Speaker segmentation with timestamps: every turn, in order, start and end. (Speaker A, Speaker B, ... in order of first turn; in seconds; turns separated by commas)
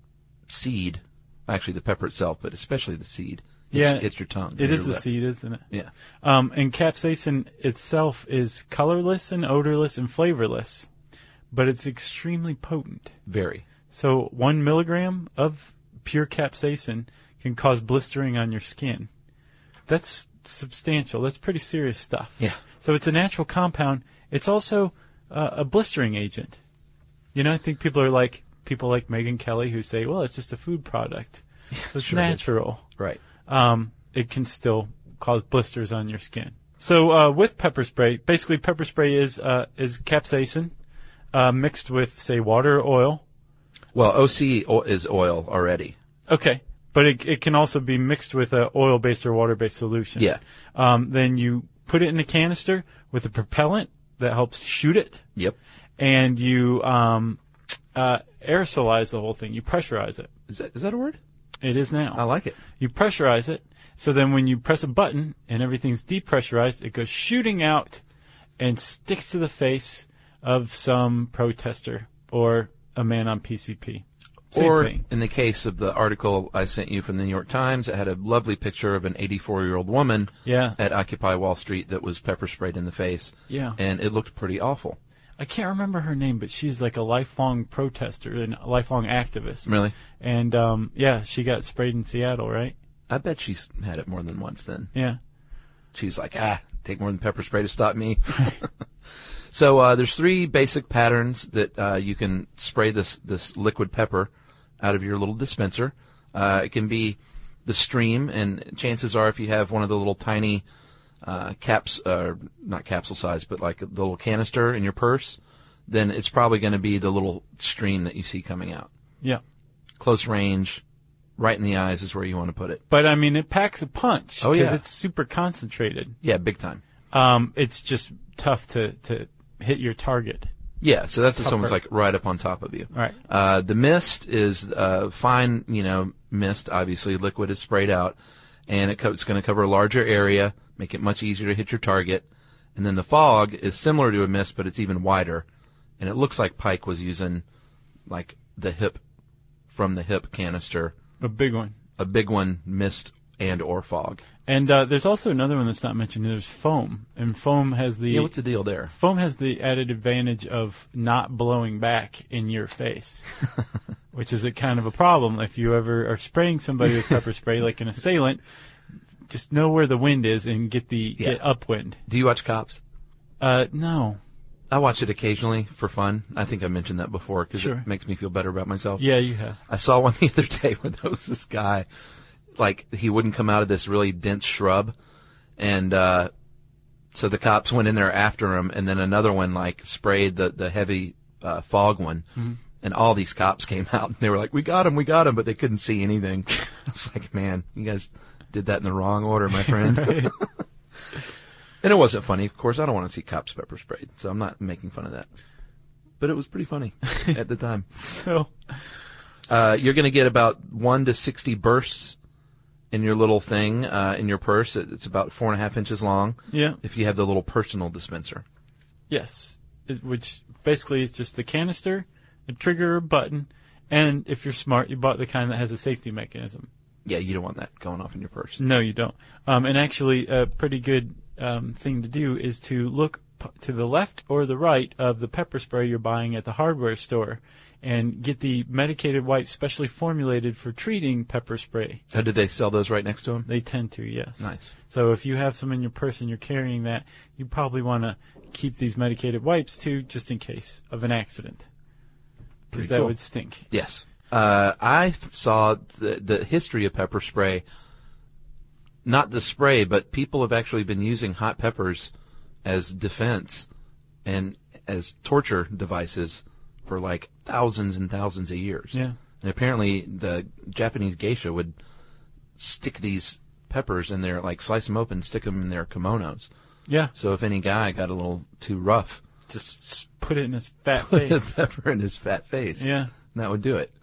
Speaker A: 0.5-5.0, Speaker B: 3.7-5.7, Speaker B: 6.2-10.9, Speaker B: 11.5-13.2, Speaker A: 13.3-13.7, Speaker B: 13.9-19.1, Speaker B: 19.9-26.6, Speaker B: 27.3-32.9, Speaker A: 31.7-33.2, Speaker B: 33.5-40.7, Speaker B: 41.3-43.2, Speaker A: 43.9-46.0, Speaker B: 46.3-55.2, Speaker B: 56.0-57.4, Speaker B: 58.0-60.3, Speaker A: 60.5-61.2, Speaker B: 61.6-68.0, Speaker A: 62.1-62.6, Speaker B: 68.6-75.0, Speaker A: 74.5-85.0, Speaker B: 80.5-80.8, Speaker B: 83.5-83.8, Speaker B: 85.4-92.8, Speaker A: 89.7-89.9, Speaker A: 93.1-94.9, Speaker B: 94.9-95.2, Speaker A: 95.9-98.7, Speaker A: 99.5-110.6, Speaker A: 111.2-118.9, Speaker A: 120.0-120.8, Speaker A: 121.4-122.8, Speaker B: 122.9-126.2, Speaker A: 124.4-124.8, Speaker A: 126.2-126.8, Speaker B: 127.1-130.5, Speaker A: 130.8-145.4, Speaker B: 131.3-131.8, Speaker B: 132.9-133.2, Speaker A: 146.0-147.4, Speaker A: 148.1-149.0, Speaker A: 149.7-150.9, Speaker B: 151.2-151.8, Speaker A: 152.0-154.2, Speaker B: 154.5-158.3, Speaker A: 158.1-158.9, Speaker B: 158.9-163.3, Speaker B: 164.1-168.4, Speaker B: 169.3-172.0, Speaker A: 172.1-172.8, Speaker B: 173.4-174.2, Speaker A: 174.7-179.1, Speaker B: 177.5-177.8, Speaker B: 179.0-179.6, Speaker A: 179.7-181.9, Speaker A: 182.6-184.9, Speaker A: 185.6-186.3, Speaker A: 187.1-192.3, Speaker A: 192.8-200.4, Speaker B: 199.6-200.3, Speaker A: 201.8-205.3, Speaker A: 206.2-207.9, Speaker B: 207.9-208.8, Speaker A: 209.5-212.2, Speaker A: 212.9-218.4, Speaker B: 216.5-216.8, Speaker B: 219.1-226.7, Speaker A: 227.1-228.6, Speaker B: 228.6-242.0, Speaker A: 242.1-243.5, Speaker B: 243.5-251.7, Speaker A: 244.4-244.7, Speaker B: 252.7-253.7, Speaker A: 252.7-253.1, Speaker A: 253.7-257.6, Speaker A: 259.0-262.1, Speaker A: 262.6-263.7, Speaker A: 264.2-271.7, Speaker A: 272.6-276.5, Speaker B: 276.9-277.1, Speaker A: 277.1-279.2, Speaker B: 279.5-281.5, Speaker A: 281.0-283.9, Speaker B: 282.8-283.1